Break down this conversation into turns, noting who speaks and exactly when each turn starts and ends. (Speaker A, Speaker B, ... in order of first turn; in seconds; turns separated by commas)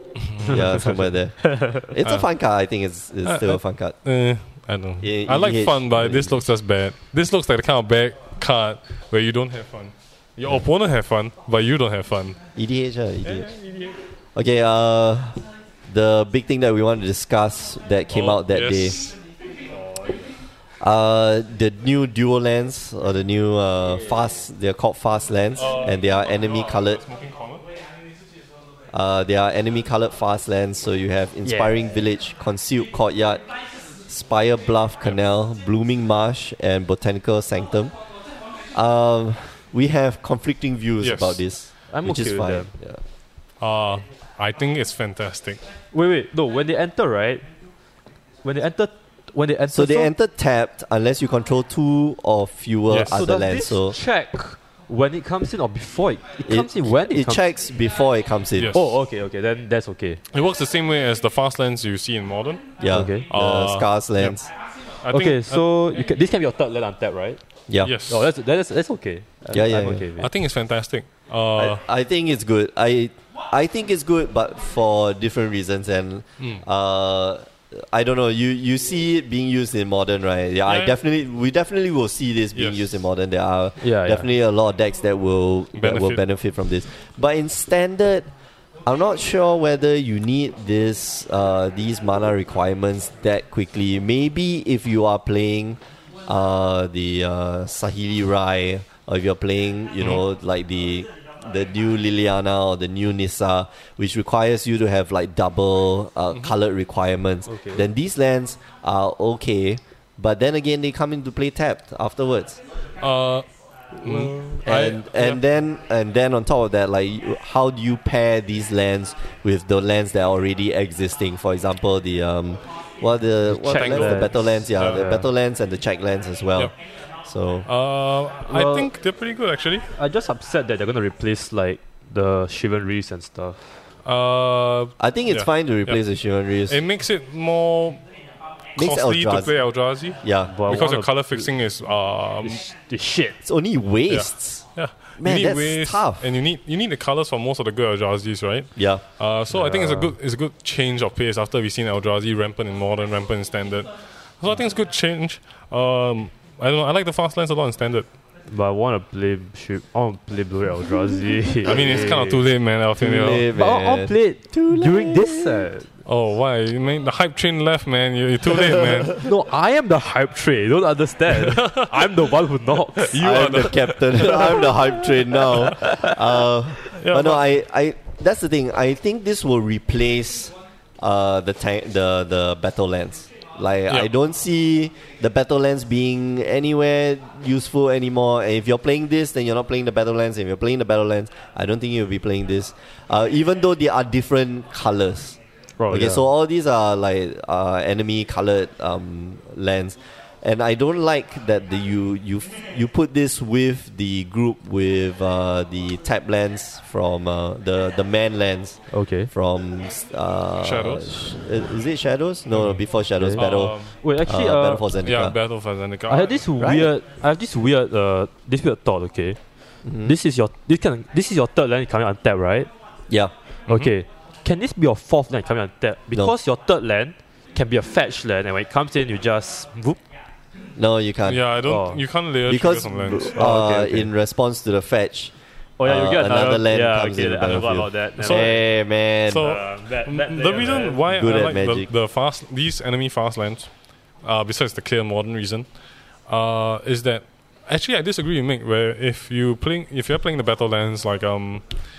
Speaker A: 0.3-1.0, Speaker B: 0.4-1.9, Speaker C: 0.5-4.0, Speaker A: 3.2-12.4, Speaker C: 5.0-6.4, Speaker C: 12.5-13.5, Speaker A: 13.2-14.0, Speaker C: 14.3-19.0, Speaker A: 18.1-19.2, Speaker B: 19.7-20.3, Speaker C: 20.8-27.0, Speaker A: 25.6-27.6, Speaker C: 28.9-33.4, Speaker B: 31.4-31.8, Speaker C: 34.1-37.9, Speaker C: 38.7-43.0, Speaker A: 41.0-41.4, Speaker B: 41.9-42.7, Speaker A: 43.6-45.6, Speaker B: 45.9-47.4, Speaker B: 48.4-50.1, Speaker C: 49.7-54.0, Speaker A: 52.9-53.2, Speaker B: 53.1-57.4, Speaker C: 56.4-58.7, Speaker A: 58.5-58.9, Speaker B: 58.7-60.2, Speaker A: 60.3-64.4, Speaker C: 62.8-64.5, Speaker B: 62.9-63.3, Speaker A: 65.0-65.6, Speaker B: 65.1-67.4, Speaker C: 67.7-67.9, Speaker A: 67.8-68.3, Speaker B: 68.0-70.3, Speaker C: 69.5-70.0, Speaker A: 70.2-71.8, Speaker C: 71.5-88.3, Speaker A: 80.7-80.9, Speaker A: 82.5-82.9, Speaker B: 83.8-84.3, Speaker A: 85.8-86.2, Speaker C: 88.8-112.6, Speaker B: 107.5-107.8, Speaker A: 113.0-113.5, Speaker A: 114.0-115.4, Speaker C: 114.0-126.7, Speaker B: 123.5-125.3, Speaker A: 123.6-125.1, Speaker C: 127.2-127.7, Speaker A: 127.7-129.9, Speaker B: 128.4-128.9, Speaker B: 129.9-133.8, Speaker A: 134.0-136.0, Speaker C: 135.0-136.8, Speaker A: 136.7-138.0, Speaker C: 138.8-139.5, Speaker A: 138.8-142.6, Speaker C: 140.2-140.5, Speaker B: 140.4-141.5, Speaker B: 142.4-143.4, Speaker C: 143.4-144.6, Speaker A: 144.1-158.1, Speaker C: 145.2-146.3, Speaker C: 148.8-149.0, Speaker B: 149.5-150.1, Speaker B: 158.5-162.4, Speaker A: 161.6-163.5, Speaker C: 161.7-162.0, Speaker C: 163.0-165.6, Speaker B: 163.5-165.9, Speaker A: 166.1-169.2, Speaker B: 169.1-173.6, Speaker A: 171.3-172.2, Speaker A: 173.0-174.8, Speaker C: 173.2-195.4, Speaker B: 174.3-174.7, Speaker B: 175.8-176.1, Speaker A: 176.9-177.4, Speaker B: 195.8-196.2, Speaker C: 195.9-215.4, Speaker B: 208.9-209.3, Speaker A: 210.6-211.3, Speaker A: 212.5-213.9, Speaker B: 213.2-214.9, Speaker A: 215.0-216.5, Speaker B: 216.1-219.4, Speaker C: 216.6-216.9, Speaker C: 219.8-220.1, Speaker B: 220.0-222.7, Speaker A: 223.7-223.9, Speaker B: 223.7-230.0, Speaker C: 230.8-231.4, Speaker A: 231.2-234.0, Speaker B: 231.6-232.0, Speaker C: 232.5-235.3, Speaker B: 233.3-234.0, Speaker B: 235.8-238.6, Speaker C: 235.8-239.5, Speaker A: 238.2-238.6, Speaker A: 239.2-243.7, Speaker B: 239.4-241.0, Speaker C: 241.1-241.9, Speaker A: 244.2-245.7, Speaker A: 246.3-251.8